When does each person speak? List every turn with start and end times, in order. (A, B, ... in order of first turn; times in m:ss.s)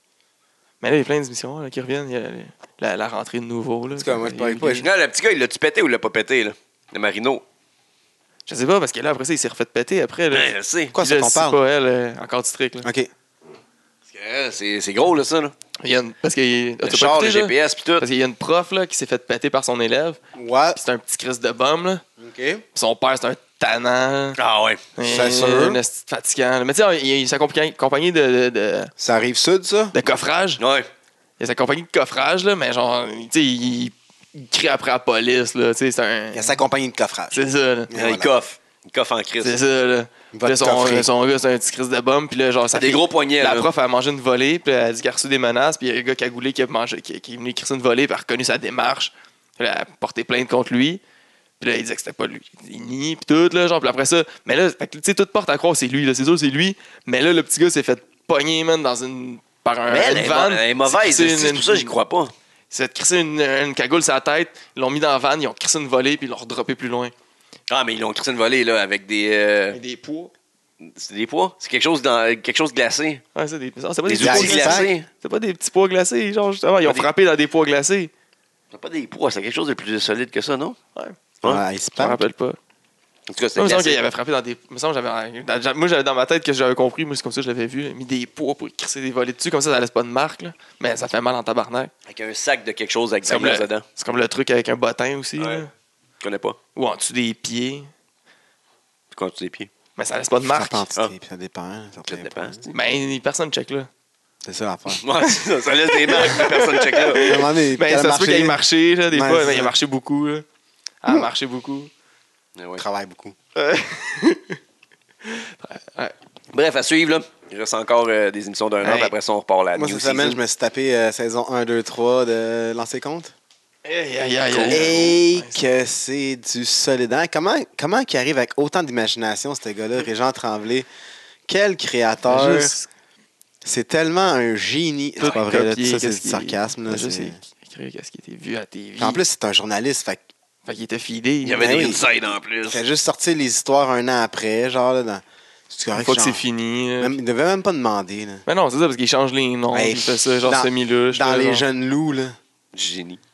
0:00.8-0:04.9 A
0:04.0-0:04.9 B
0:04.8-0:07.4 C
0:08.5-0:12.9 A
0:10.3-0:10.9 C
0:10.9-0:11.6 B
0:12.8-0:13.1 B
0:14.1-0:15.5 C
0:15.8-0:20.2 A
0:16.8-0:18.1 C
0:20.3-0:20.8 B
0:20.8-0:22.0 A
0:22.2-0:22.6 B
0:22.8-0:24.4 A
0:24.4-0:24.8 C
0:25.0-0:28.9 A
0:25.0-0:25.8 B
0:29.0-0:30.0 B
0:29.9-0:30.6 A
0:30.6-0:30.9 C
0:31.4-0:36.6 A
0:36.3-0:38.3 B
0:37.3-0:37.9 A
0:38.0-0:39.6 C
0:39.4-0:51.0 A
0:40.3-0:41.1 B
0:42.7-0:43.7 C
0:51.6-1:01.9 A
0:59.9-1:02.3 C
1:02.7-1:07.1 A
1:07.7-1:09.8 C
1:09.7-1:10.3 A
1:10.8-1:13.2 C
1:13.4-1:18.1 A
1:14.1-1:15.1 C
1:14.2-1:14.9 B
1:18.7-1:20.8 C
1:21.4-1:22.2 B
1:22.0-1:22.6 A
1:23.3-1:24.0 C
1:23.6-1:31.9 A
1:32.1-1:33.8 C
1:33.2-1:35.7 A
1:35.4-1:35.6 C
1:36.2-1:36.6 C
1:36.8-1:37.9 A
1:39.1-1:39.7 C
1:40.0-1:40.9 A
1:40.4-1:42.6 B
1:42.1-1:42.8 C
1:42.7-1:43.9 A
1:44.4-1:45.0 B
1:45.0-1:47.2 C
1:45.3-1:50.4 A
1:47.2-1:48.6 B
1:49.1-1:49.7 B
1:51.0-1:51.9 A
1:52.6-1:52.8 C
1:52.8-1:53.4 B
1:53.6-1:54.6 A
1:55.2-1:56.1 A
1:56.5-2:00.4 C
1:58.8-1:59.1 A
1:59.8-2:03.3 B
2:03.8-2:05.6 A
2:04.5-2:05.1 C
2:04.7-2:10.9 B
2:11.5-2:12.7 B
2:12.2-2:12.9 A
2:13.6-2:17.4 B
2:15.2-2:19.2 A
2:19.0-2:20.2 B
2:20.6-2:22.0 A
2:21.4-2:22.8 C
2:21.6-2:22.0 B
2:22.7-2:26.5 B
2:26.0-2:27.2 A
2:27.0-2:28.4 B
2:28.5-2:31.6 A
2:29.7-2:32.4 B
2:32.7-2:33.2 C